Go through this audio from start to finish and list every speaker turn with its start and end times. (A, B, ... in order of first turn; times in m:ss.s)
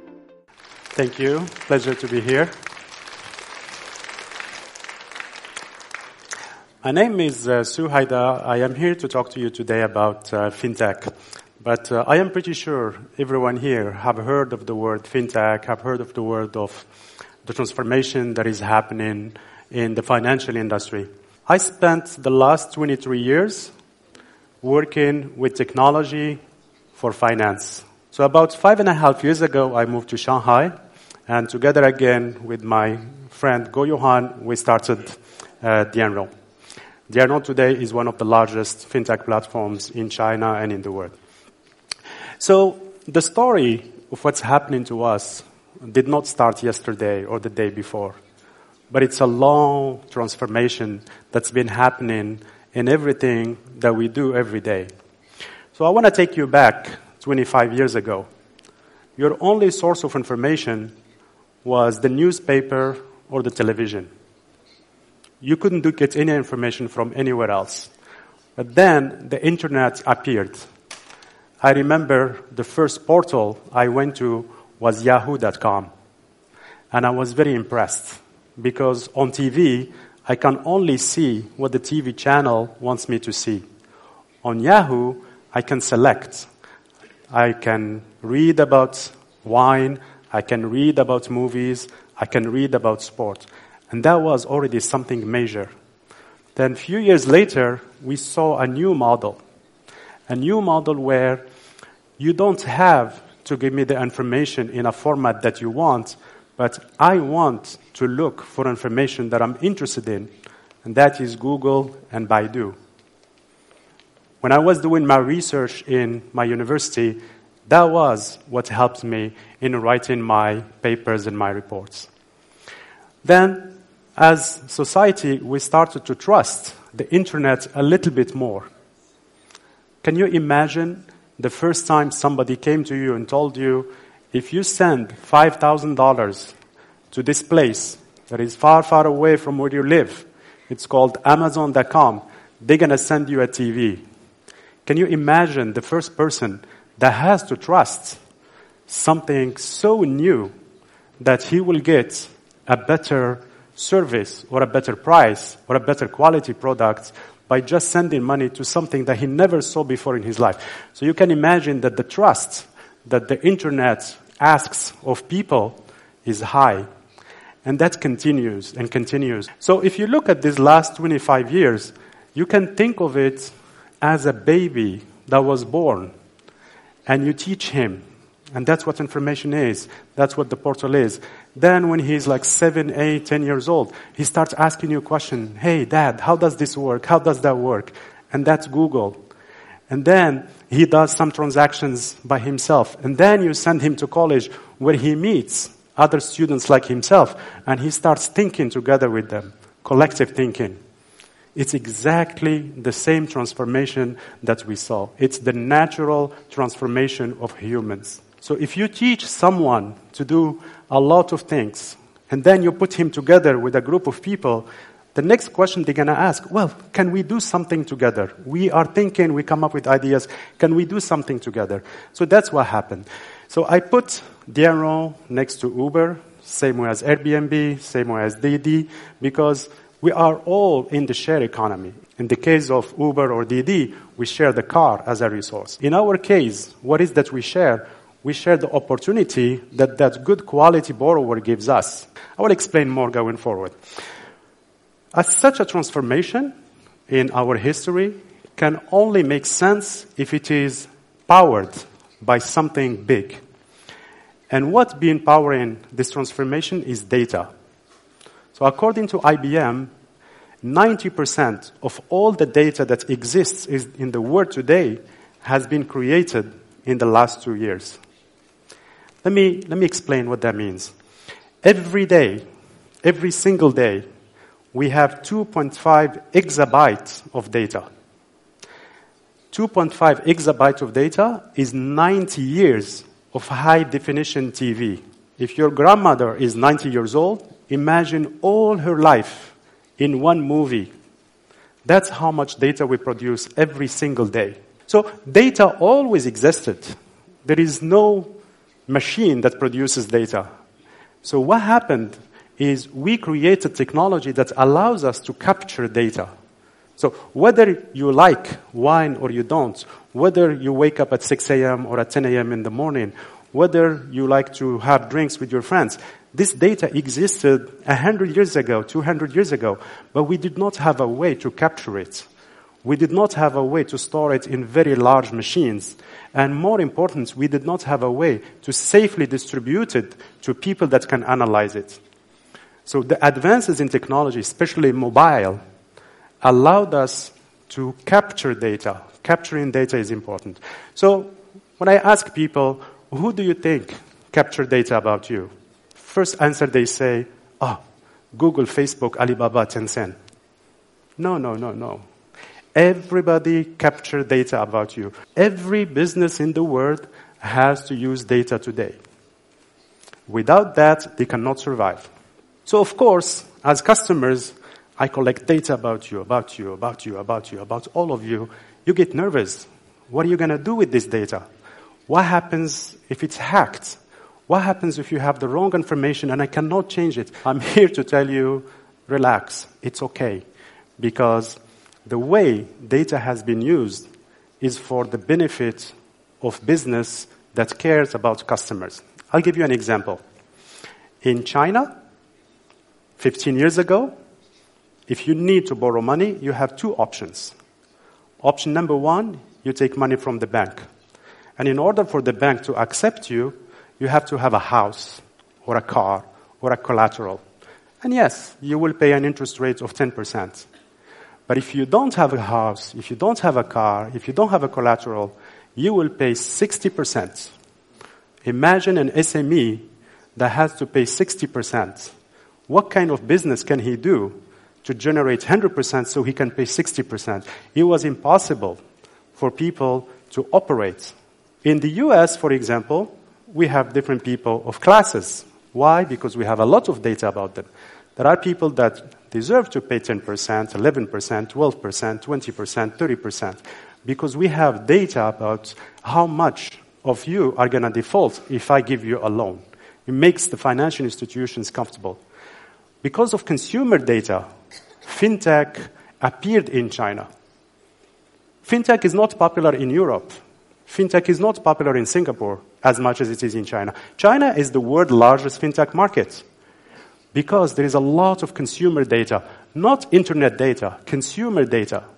0:00.9-0:02.5 A
0:06.8-0:16.9 A
0:17.4-0:23.7 A
0:24.6-0:26.4 A
0:26.9-0:30.7 A
0:31.3-0:36.3 A
0:37.1-0:41.1 A
0:42.4-0:48.2 A
0:48.9-0:54.9 A
0:55.7-0:58.3 A
0:59.2-1:00.9 A
1:01.6-1:04.1 A
1:05.4-1:07.9 A
1:08.6-1:10.7 A
1:11.6-1:15.9 A
1:16.9-1:23.6 A
1:24.4-1:26.5 A
1:27.3-1:35.7 A
1:36.6-1:39.4 A
1:40.3-1:41.4 A
1:42.2-1:50.3 A
1:50.8-1:52.8 A
1:54.4-2:02.1 A
2:03.2-2:08.7 A
2:10.0-2:16.5 A
2:17.1-2:24.0 A
2:24.8-2:28.2 A
2:28.9-2:30.5 A
2:31.2-2:46.9 A
2:47.6-2:56.1 A
2:57.0-3:09.2 A
3:09.9-3:20.8 A
3:21.5-4:03.8 A
4:05.1-4:06.5 A
4:07.1-4:13.4 A
4:14.5-4:17.5 A
4:18.5-4:19.9 A
4:20.6-4:28.0 A
4:29.2-4:30.9 A
4:31.6-4:32.4 A
4:33.0-4:34.0 A
4:34.7-4:37.8 A
4:39.5-4:50.9 A
4:51.8-4:58.3 A
4:58.9-5:00.4 A
5:01.2-5:06.3 A
5:07.0-5:22.3 A
5:22.8-5:32.0 A
5:32.8-5:35.6 A
5:36.4-5:47.8 A
5:48.3-5:50.2 A
5:51.2-5:52.0 A
5:52.7-5:59.0 A
6:00.3-6:02.1 A
6:02.6-6:11.4 A
6:12.1-6:20.4 A
6:21.0-6:24.1 A
6:24.6-6:30.2 A
6:31.2-6:31.9 A
6:33.2-6:34.1 A
6:35.1-6:37.6 A
6:38.4-6:40.8 A
6:41.6-6:47.4 A
6:48.0-6:50.7 A
6:51.5-6:57.5 A
6:58.4-7:02.1 A
7:02.7-7:08.8 A
7:09.3-7:32.2 A
7:33.0-7:34.4 A
7:35.0-7:37.2 A
7:38.6-7:40.4 A
7:40.9-7:46.4 A
7:47.3-7:52.0 A